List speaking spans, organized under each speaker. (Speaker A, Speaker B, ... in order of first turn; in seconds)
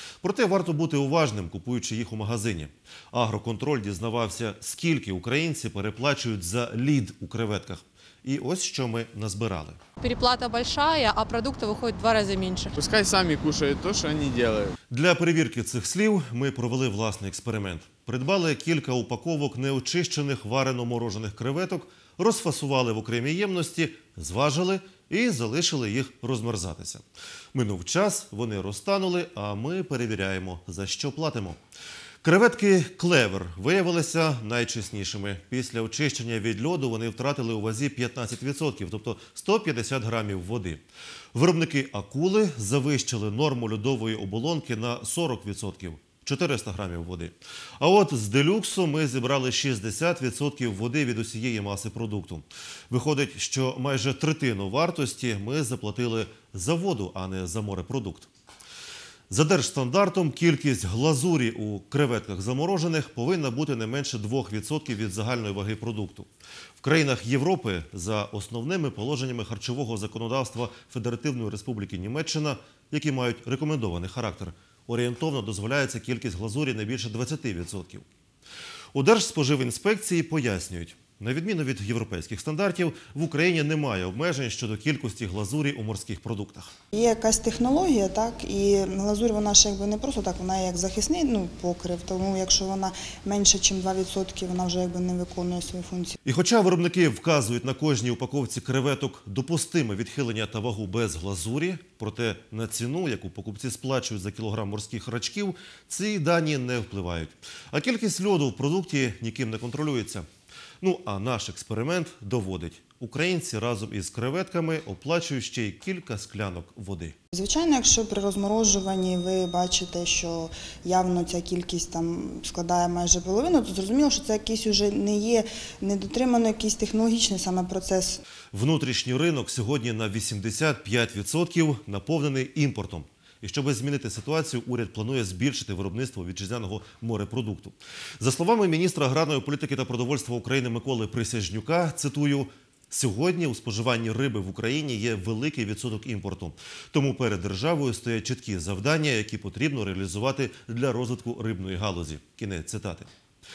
Speaker A: 0.2-9.8, 14.9-27.0, 27.5-31.6, 32.2-40.8, 41.3-58.3, 59.3-66.3, 66.8-78.0, 78.9-86.7, 96.2-110.2, 110.8-117.1, 128.5-153.1
Speaker B: 10.0-12.7
Speaker C: 12.8-14.7
Speaker D: 86.9-96.1, 117.3-128.2